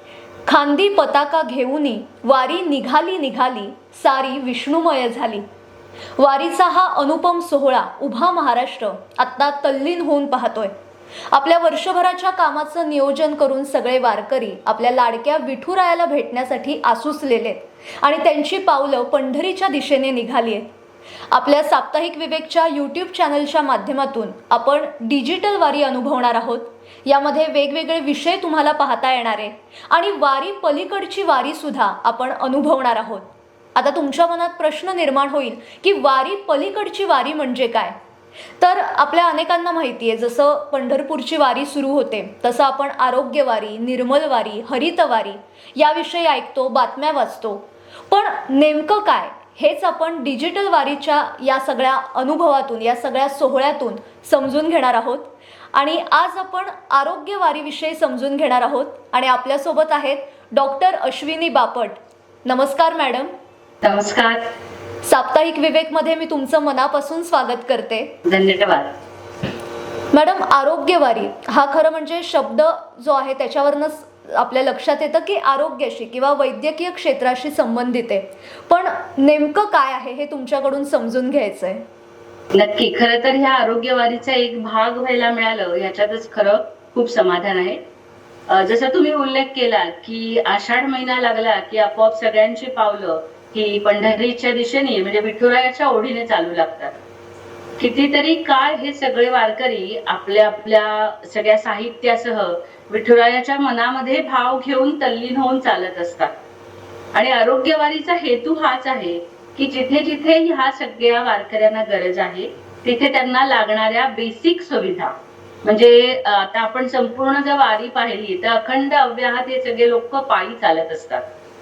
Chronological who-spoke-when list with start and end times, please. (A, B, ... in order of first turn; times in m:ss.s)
0:00.4-0:05.4 A
0:06.2-0:10.7 A
0:11.3-0:20.7 A
0:21.3-0:38.0 A
0:38.6-1:03.3 A
1:03.8-1:04.4 B
1:05.0-1:08.1 A
1:08.2-1:08.9 B
1:10.1-1:21.8 A
1:22.5-1:27.8 B
1:28.5-1:36.9 B
1:37.8-1:46.3 B
1:47.1-2:01.2 B